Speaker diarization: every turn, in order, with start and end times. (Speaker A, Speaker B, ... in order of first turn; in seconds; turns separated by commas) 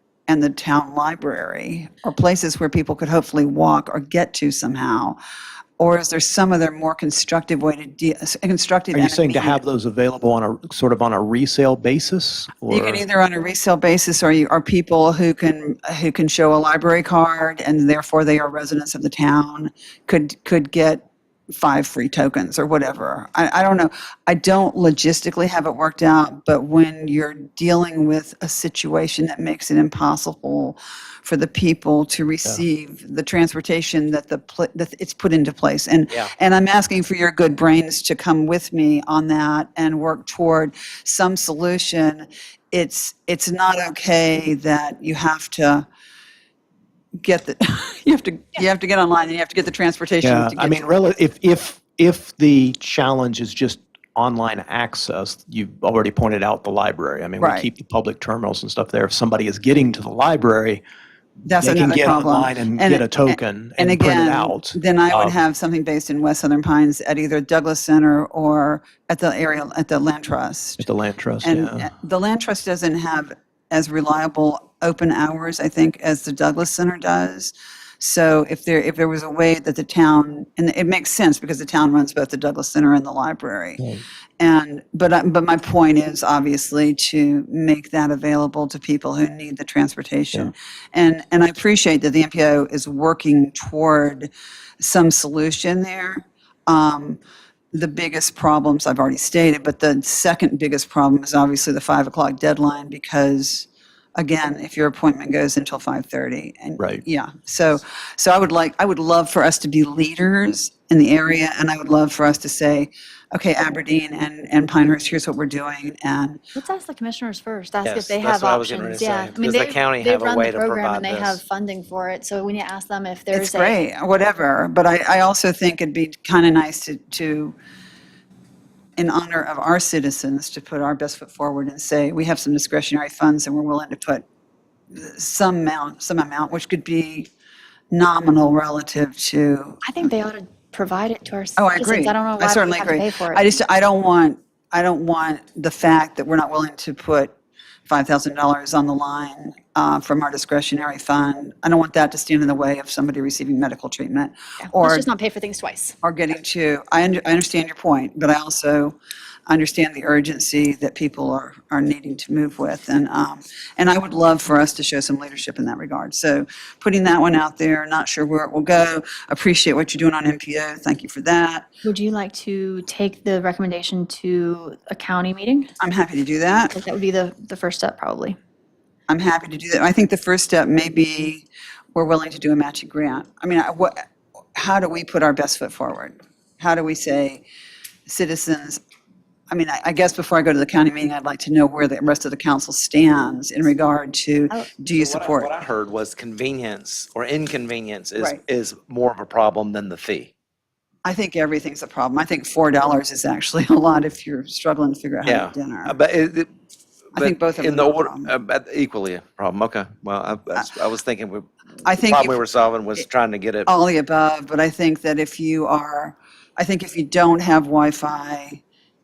Speaker A: 0.3-5.2, Speaker A: 5.8-9.6, Speaker B: 8.9-13.0, Speaker A: 12.7-45.9, Speaker A: 47.2-50.9, Speaker B: 50.2-60.8, Speaker A: 57.4-57.7, Speaker A: 61.4-70.8, Speaker B: 61.6-65.4, Speaker B: 70.8-71.9, Speaker A: 71.4-83.8, Speaker A: 84.4-94.3, Speaker A: 94.8-97.2, Speaker A: 97.7-116.4, Speaker C: 116.5-123.8, Speaker D: 117.8-121.4, Speaker A: 123.3-127.5, Speaker A: 129.0-134.2, Speaker A: 134.9-137.3, Speaker A: 137.9-139.9, Speaker C: 139.8-143.4, Speaker A: 141.6-147.3, Speaker A: 147.9-155.1, Speaker C: 154.8-155.9, Speaker A: 156.0-158.9, Speaker A: 159.5-171.7, Speaker C: 171.8-175.7, Speaker A: 175.8-176.7, Speaker C: 176.7-178.4, Speaker A: 179.1-187.4, Speaker A: 188.1-188.8, Speaker A: 189.5-195.5, Speaker D: 194.5-200.3, Speaker A: 201.0-205.9, Speaker D: 205.2-206.5, Speaker A: 207.1-208.3, Speaker D: 207.1-213.7, Speaker A: 211.8-212.4, Speaker A: 213.7-218.6